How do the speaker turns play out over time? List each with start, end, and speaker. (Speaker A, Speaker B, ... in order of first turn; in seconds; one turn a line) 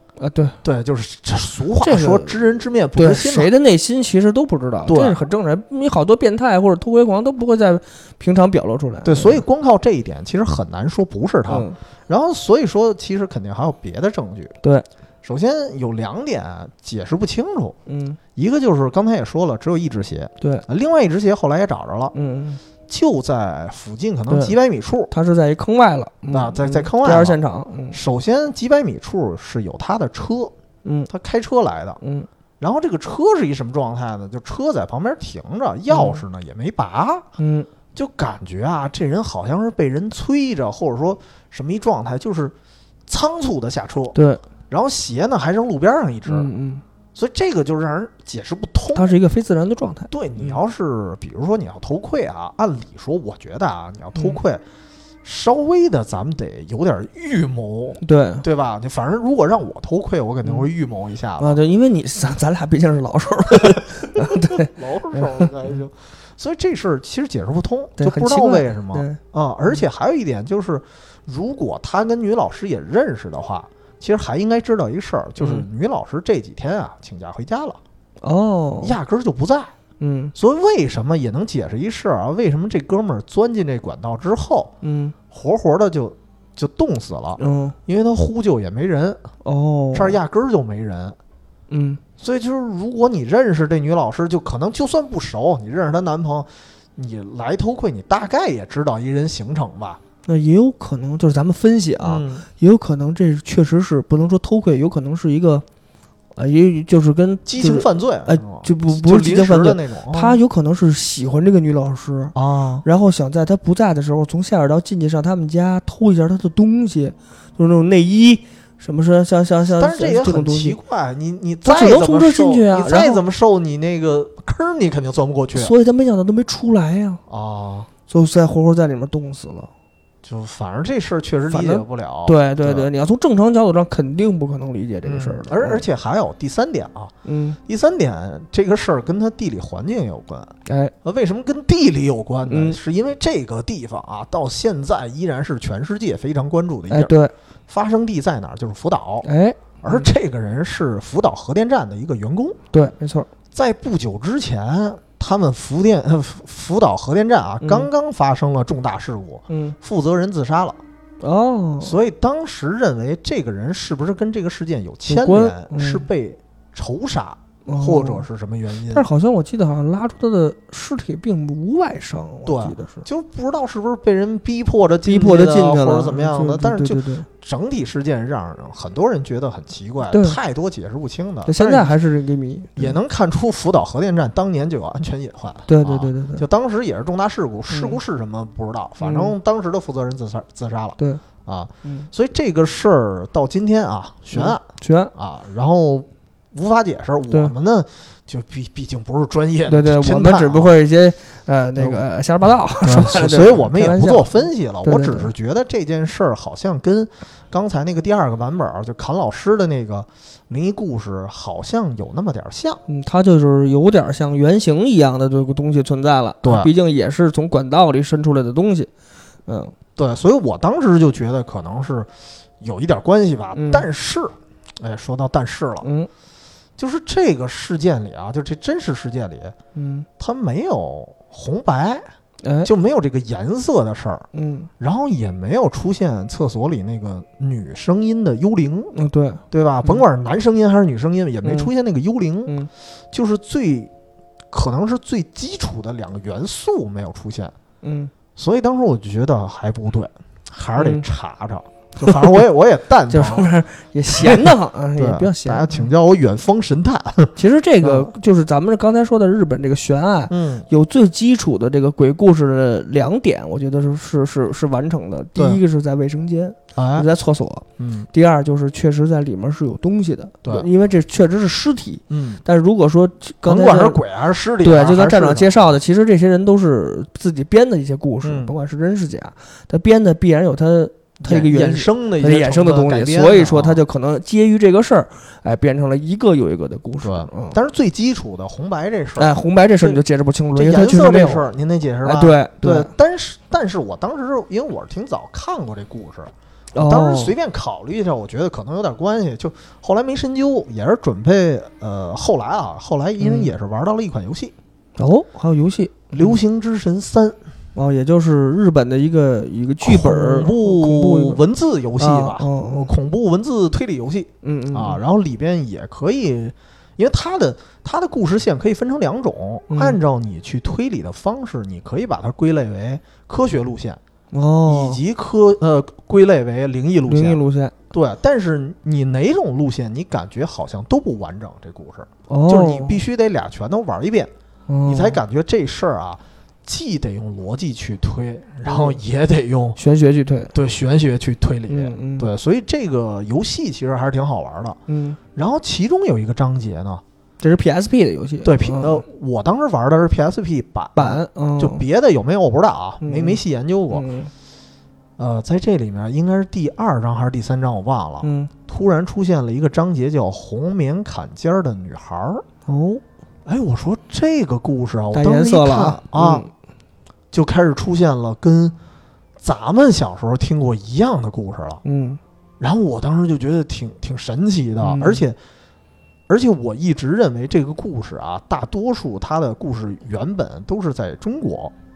Speaker A: 0.2-0.6
Speaker B: 0.6-3.5
Speaker A: 1.8-2.4
Speaker A: 3.0-9.4
Speaker B: 4.9-5.3
Speaker B: 9.0-14.6
Speaker A: 11.5-11.8
Speaker B: 15.2-17.8
Speaker A: 17.9-18.2
Speaker B: 18.3-22.1
Speaker A: 22.1-22.6
Speaker B: 22.9-25.1
Speaker A: 24.3-24.6
Speaker A: 25.1-28.0
Speaker B: 26.3-27.4
Speaker B: 27.9-30.5
Speaker A: 30.8-31.1
Speaker B: 31.1-32.0
Speaker A: 32.0-32.3
Speaker B: 32.6-37.2
Speaker A: 35.9-36.2
Speaker A: 37.4-37.7
Speaker B: 37.9-42.5
Speaker B: 43.1-44.2
Speaker A: 44.1-44.4
Speaker B: 44.7-46.5
Speaker A: 46.3-46.8
Speaker B: 47.1-49.2
Speaker A: 48.9-50.6
Speaker B: 50.1-54.6
Speaker B: 55.2-61.6
Speaker A: 58.0-58.4
Speaker A: 61.4-65.5
Speaker B: 64.2-77.8
Speaker A: 68.0-69.2
Speaker A: 75.4-75.6
Speaker A: 78.2-79.0
Speaker B: 78.8-79.7
Speaker A: 80.0-80.3
Speaker B: 80.3-84.7
Speaker A: 84.8-85.1
Speaker B: 85.3-89.2
Speaker A: 87.4-87.8
Speaker A: 89.4-90.2
Speaker B: 89.9-91.2
Speaker A: 91.7-92.0
Speaker B: 92.2-100.0
Speaker A: 100.2-105.6
Speaker B: 102.0-102.5
Speaker A: 106.3-120.8
Speaker B: 107.5-110.4
Speaker B: 112.3-112.8
Speaker B: 119.8-125.7
Speaker A: 121.6-123.2
Speaker A: 125.5-127.2
Speaker B: 127.3-127.9
Speaker A: 128.1-129.7
Speaker B: 130.2-132.9
Speaker A: 131.5-135.8
Speaker B: 135.0-137.1
Speaker A: 137.2-137.6
Speaker B: 137.6-147.1
Speaker A: 140.7-140.9
Speaker A: 142.5-142.8
Speaker A: 146.9-147.3
Speaker B: 147.7-149.3
Speaker A: 149.2-150.1
Speaker B: 149.8-152.6
Speaker A: 152.7-153.3
Speaker B: 153.5-160.8
Speaker A: 157.6-157.9
Speaker A: 159.5-159.8
Speaker A: 161.2-162.0
Speaker B: 161.8-169.1
Speaker A: 165.1-166.1
Speaker A: 167.6-168.2
Speaker A: 168.9-173.1
Speaker B: 172.4-182.0
Speaker A: 175.0-177.3
Speaker A: 180.1-180.4
Speaker A: 181.4-182.9
Speaker B: 182.8-194.6
Speaker A: 185.7-186.4
Speaker A: 187.7-188.0
Speaker A: 189.0-189.3
Speaker A: 191.8-192.1
Speaker A: 194.3-195.1
Speaker B: 195.1-200.7
Speaker A: 199.7-205.3
Speaker B: 202.8-212.8
Speaker A: 212.9-218.9
Speaker B: 216.4-216.7
Speaker A: 219.5-219.7
Speaker B: 219.9-222.1
Speaker B: 222.6-225.9
Speaker A: 223.5-223.8
Speaker A: 225.8-226.1
Speaker B: 226.8-229.6
Speaker A: 229.7-230.1
Speaker B: 230.2-232.0
Speaker A: 232.4-232.7
Speaker B: 232.6-234.2
Speaker A: 234.3-234.7
Speaker B: 234.8-238.9
Speaker A: 238.9-240.0
Speaker B: 239.5-242.5
Speaker A: 241.4-241.7
Speaker B: 243.1-243.9
Speaker B: 244.5-247.5
Speaker A: 247.8-248.1
Speaker B: 248.3-253.5
Speaker A: 250.8-251.1
Speaker A: 252.0-252.3
Speaker A: 253.1-255.9
Speaker B: 254.1-258.1
Speaker A: 257.4-274.0
Speaker B: 260.3-260.7
Speaker B: 266.8-267.1
Speaker B: 267.8-268.1
Speaker B: 272.1-272.4
Speaker B: 273.4-275.8
Speaker A: 274.6-287.6
Speaker B: 278.2-278.5
Speaker B: 281.2-283.8
Speaker B: 287.0-290.0
Speaker A: 289.2-291.4
Speaker B: 290.5-304.5
Speaker A: 292.0-292.9
Speaker A: 296.7-297.3
Speaker A: 303.2-303.5
Speaker A: 305.0-306.4
Speaker B: 306.1-307.4
Speaker A: 307.8-311.4
Speaker B: 309.8-324.0
Speaker A: 312.0-312.9
Speaker A: 314.4-315.0
Speaker A: 319.7-320.0
Speaker A: 324.3-325.0
Speaker B: 324.6-327.4
Speaker A: 327.1-327.7
Speaker B: 327.9-334.3
Speaker A: 332.3-333.0
Speaker A: 334.7-335.2
Speaker B: 334.9-339.8
Speaker A: 338.6-339.0
Speaker A: 339.8-340.5
Speaker B: 340.5-344.8
Speaker A: 341.7-342.3
Speaker A: 344.9-345.2
Speaker B: 345.3-347.0
Speaker A: 347.4-349.0
Speaker B: 348.4-354.1
Speaker A: 350.9-351.8
Speaker A: 353.0-354.3
Speaker B: 355.2-362.4
Speaker A: 358.2-358.5
Speaker A: 362.6-363.0
Speaker B: 363.4-366.4
Speaker A: 365.1-366.5
Speaker B: 367.3-368.8
Speaker B: 369.4-371.8
Speaker A: 371.8-372.2
Speaker B: 372.6-375.4
Speaker A: 374.8-375.2
Speaker B: 376.3-381.7